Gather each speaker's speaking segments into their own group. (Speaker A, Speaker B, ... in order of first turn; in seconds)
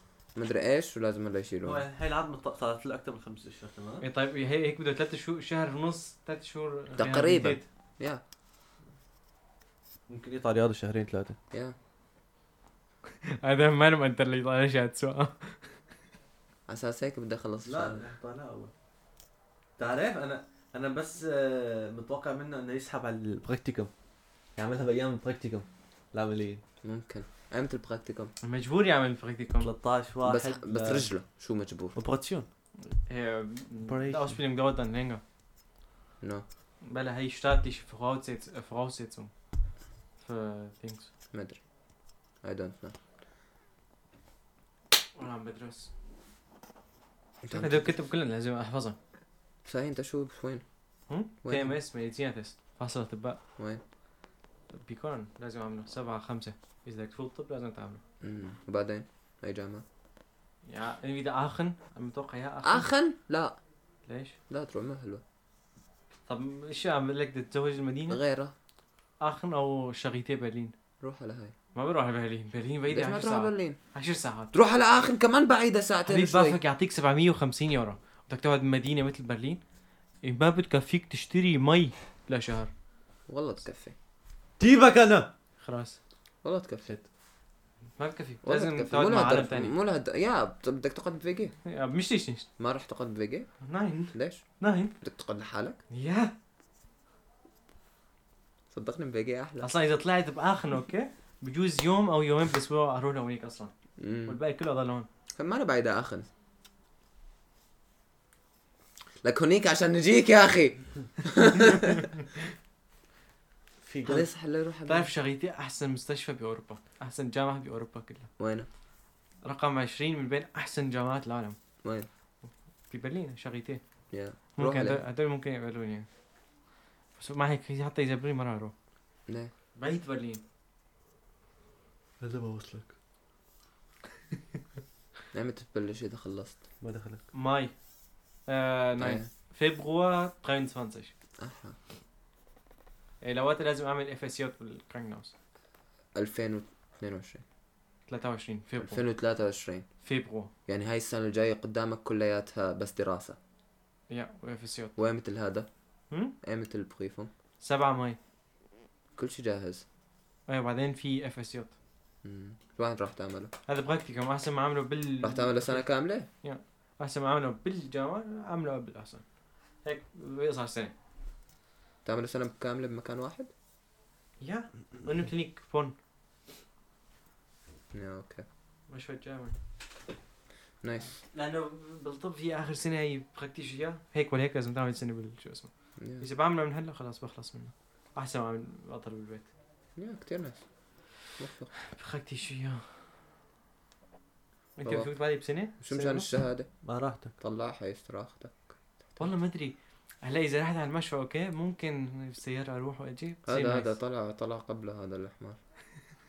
Speaker A: 0.4-1.9, 7.0-8.2, 11.5-11.8, 16.7-18.0, 26.8-28.3, 30.2-32.0, 41.3-41.6, 42.4-43.0, 47.4-47.9, 49.6-50.6, 51.4-51.8, 58.2-59.9, 62.6-63.6, 64.5-65.2, 68.1-68.5, 71.0-71.5, 72.9-73.8, 74.5-76.6, 83.3-84.0, 86.4-86.9, 88.4-91.5, 92.6-93.5, 94.1-94.5, 95.0-95.8, 98.7-99.7, 104.0-104.4, 105.4-106.3, 109.2-112.1, 114.0-115.1, 118.4-118.7, 124.1-125.0, 135.3-136.6, 139.0-139.3, 141.4-141.8, 146.2-147.4, 148.8-149.9, 150.7-153.4, 155.0-155.7, 156.4-157.3, 159.2-159.8, 162.2-163.5, 165.2-166.3, 172.1-173.5, 177.9-178.4, 180.8-181.1, 186.0-186.2, 190.0-190.6, 191.4-191.7, 194.8-195.1, 195.8-196.7, 197.4-199.2, 203.5-205.6
Speaker B: 1.6-4.1, 10.1-11.4, 17.6-18.7, 19.8-23.9, 24.6-26.6, 29.6-31.1, 32.0-32.5, 33.9-34.4, 84.6-85.3, 113.8-114.3, 132.2-132.9, 136.8-137.2, 196.8-197.3
Speaker C: 4.0-7.7, 13.3-15.7, 28.4-29.7, 32.9-35.2, 36.8-39.3, 40.2-41.1, 45.2-45.9, 47.5-49.0, 51.1-53.4, 54.7-58.0, 60.7-62.9, 64.1-64.4, 66.3-68.2, 69.2-70.8, 71.8-74.5, 76.0-79.6, 80.2-82.7, 85.6-86.0, 88.0-89.7, 91.7-92.5, 93.6-94.9, 95.9-96.3, 99.6-103.7, 104.3-105.1, 114.9-118.3, 119.4-121.6, 122.4-123.8, 124.6-126.1, 127.2-128.7, 129.8-130.4, 137.3-137.7, 138.5-141.1, 143.2-145.3, 148.1-149.0, 150.0-150.5, 154.1-154.9, 157.6-158.2, 160.5-161.7, 163.7-165.9, 166.4-169.2, 169.8-170.9, 174.4-175.9, 178.9-179.6, 181.2-189.5, 191.9-192.9, 194.8-196.3, 199.2-203.9